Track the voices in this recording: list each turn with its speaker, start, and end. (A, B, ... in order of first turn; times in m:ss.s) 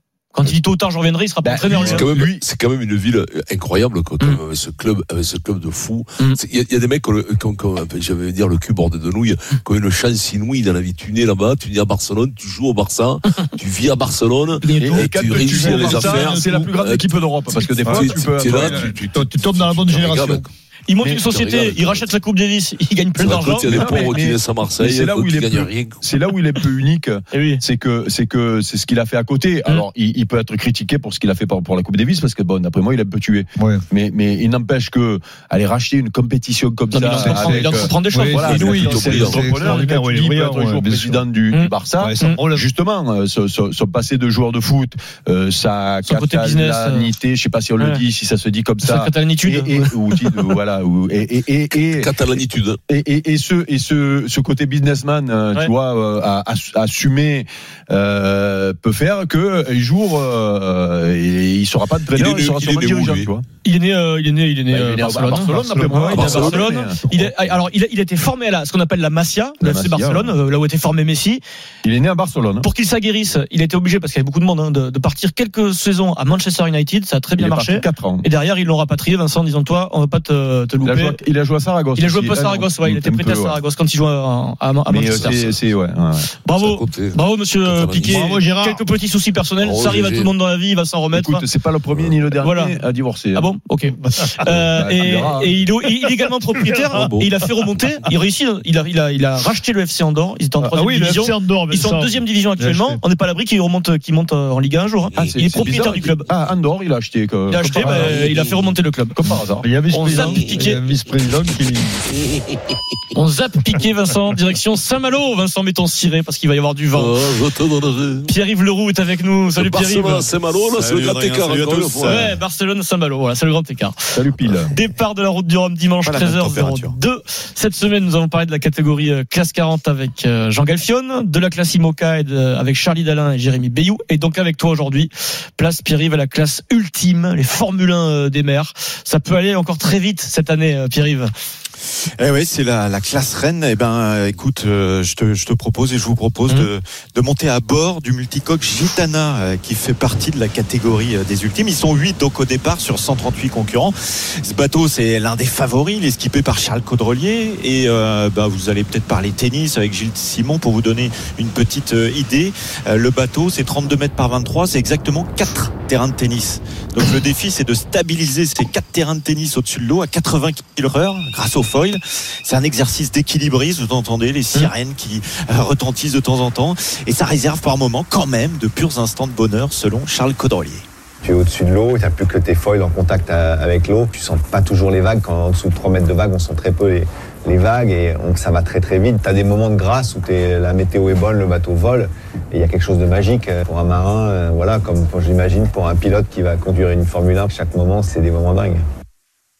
0:00.3-0:02.1 A
0:01.4-0:02.4 B
0:01.7-0:17.0 C
0:14.6-0:15.1 A
0:14.8-0:19.0 B
0:15.3-0:16.7 D
0:17.8-0:20.5 C
0:17.8-0:20.5 D
0:20.9-0:23.9 A
0:21.0-0:21.2 B
0:21.2-0:22.1 C
0:23.2-0:26.0 C
0:23.3-0:52.1 B
0:27.3-0:27.6 A
0:33.6-0:33.8 D
0:36.9-0:39.1 A
0:37.2-0:41.2 D
0:38.3-0:39.5 C
0:41.5-0:42.4 A
0:42.0-0:42.6 D
0:46.0-0:47.1 A
0:47.8-0:48.0 A
0:48.8-0:50.2 A
0:51.9-0:52.8 C
0:52.9-1:03.4 B
1:02.1-1:03.3 C
1:03.6-1:11.4 A
1:04.7-1:07.4 B
1:05.6-1:05.9 D
1:06.0-1:06.7 C
1:09.6-1:10.3 B
1:11.8-1:12.7 B
1:12.6-1:21.2 A
1:17.4-1:18.3 B
1:20.8-1:23.6 B
1:21.9-1:25.4 A
1:24.9-1:26.3 B
1:25.2-1:25.5 C
1:26.4-1:31.4 A
1:26.5-1:28.4 C
1:28.2-1:28.8 D
1:29.6-1:30.3 C
1:31.1-1:33.5 B
1:32.4-1:32.8 A
1:33.3-1:46.3 A
1:34.7-1:35.5 B
1:37.0-1:37.2 C
1:40.6-1:43.0 D
1:45.2-1:48.3 B
1:47.5-1:49.3 A
1:47.8-1:48.0 D
1:49.2-1:49.7 B
1:49.6-1:52.0 D
1:49.9-1:50.8 A
1:53.1-1:57.2 A
1:56.9-1:58.3 C
1:58.2-2:00.3 A
1:59.6-2:02.3 C
2:00.7-2:02.3 E
2:02.0-2:04.1 A
2:04.1-2:04.7 B
2:04.6-2:21.3 A
2:06.0-2:06.9 E
2:22.2-3:00.8 E
3:01.2-3:18.8 F